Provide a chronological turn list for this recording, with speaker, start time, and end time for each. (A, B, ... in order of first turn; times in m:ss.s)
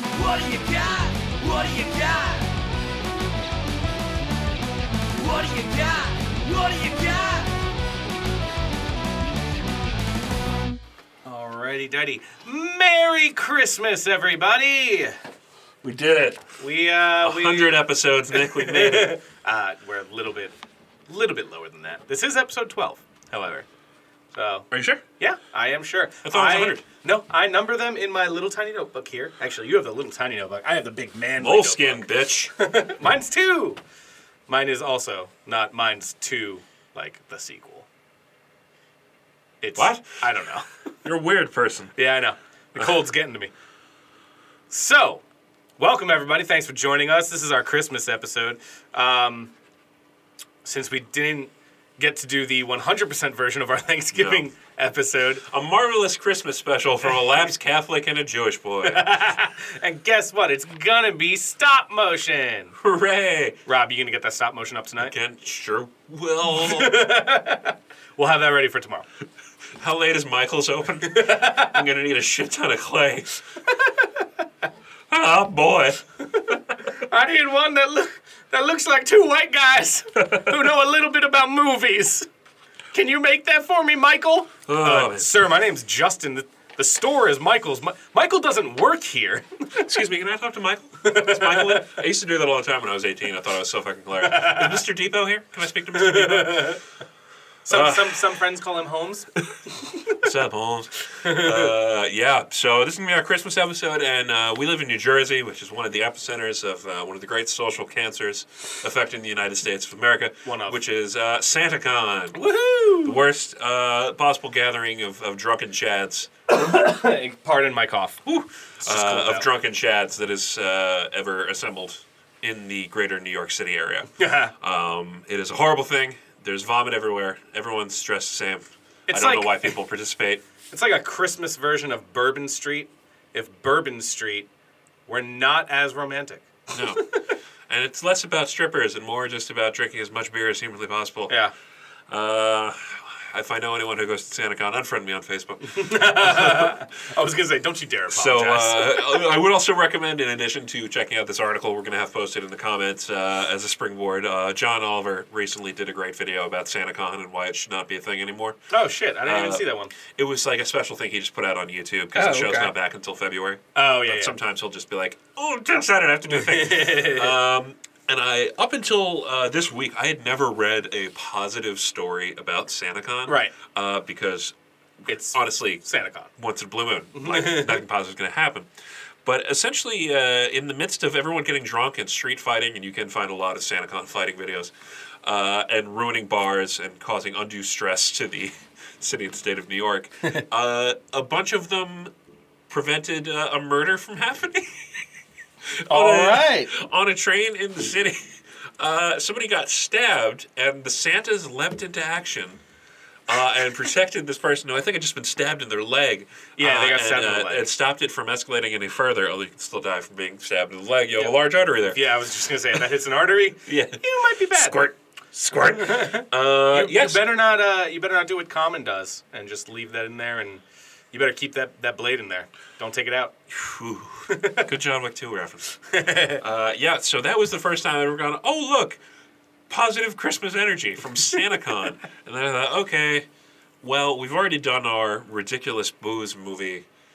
0:00.2-0:02.4 A
0:05.2-0:07.3 A
0:11.2-0:15.2 B
0:15.8-0:16.5 C
0:16.6-0:17.8 B
0:17.2-0:19.2 C
0:18.3-0:20.5 B
0:21.1-0:23.7 B
0:24.3-0:24.7 B
0:24.7-0:25.0 C
0:25.2-0:33.8 B
0:26.2-0:26.8 C
0:31.4-0:32.5 C
0:34.5-0:37.9 B
0:39.6-0:40.6 B
0:39.8-0:40.0 C
0:41.0-0:41.9 C
0:42.0-0:43.5 B
0:44.7-0:45.2 B
0:45.8-0:49.5 B
0:50.6-0:55.4 B
0:54.1-0:54.4 C
0:55.4-0:59.1 C
0:58.8-1:02.8 B
1:02.8-1:03.6 C
1:03.6-1:05.1 B
1:05.0-1:07.0 C
1:06.5-1:09.0 B
1:09.8-1:13.4 C
1:11.0-1:11.8 B
1:13.7-1:14.2 B
1:15.1-1:16.6 C
1:16.3-1:22.3 B
1:20.2-1:20.5 C
1:22.9-1:29.9 B
1:24.7-1:25.4 C
1:29.8-1:36.8 C
1:31.0-1:32.0 B
1:34.2-1:34.8 B
1:35.9-1:36.8 B
1:37.6-1:38.2 C
1:37.7-1:39.3 B
1:40.1-1:52.4 C
1:41.2-1:41.7 B
1:50.4-1:50.8 B
1:52.3-1:53.2 B
1:53.0-1:56.3 C
1:56.5-1:58.2 B
1:58.2-2:10.4 C
1:58.8-1:59.5 B
2:04.2-2:04.5 B
2:09.1-2:09.7 B
2:10.7-2:14.5 B
2:15.1-2:17.0 B
2:16.7-2:17.0 C
2:17.7-2:21.3 C
2:22.1-2:26.8 C
2:25.6-2:29.1 B
2:28.1-2:38.6 C
2:38.7-2:39.9 B
2:39.2-2:54.5 C
2:42.1-2:42.7 B
2:43.7-2:44.4 B
2:46.3-2:47.3 B
2:53.2-2:53.5 B
2:55.1-2:56.3 B
2:55.3-2:55.8 C
2:56.4-2:58.7 C
2:57.1-2:57.8 B
2:59.2-3:04.7 C
3:05.2-3:12.1 C
3:12.7-3:15.0 C
3:15.8-3:22.6 C
3:15.9-3:16.7 B
3:23.3-3:32.0 C
3:26.6-3:27.7 B
3:31.9-3:34.9 B
3:33.6-3:37.3 C
3:35.6-3:43.4 B
3:43.5-3:45.7 C
3:44.3-3:44.7 B
3:45.9-3:46.4 B
3:46.3-3:49.0 C
3:49.7-3:53.2 C
3:53.8-3:56.8 C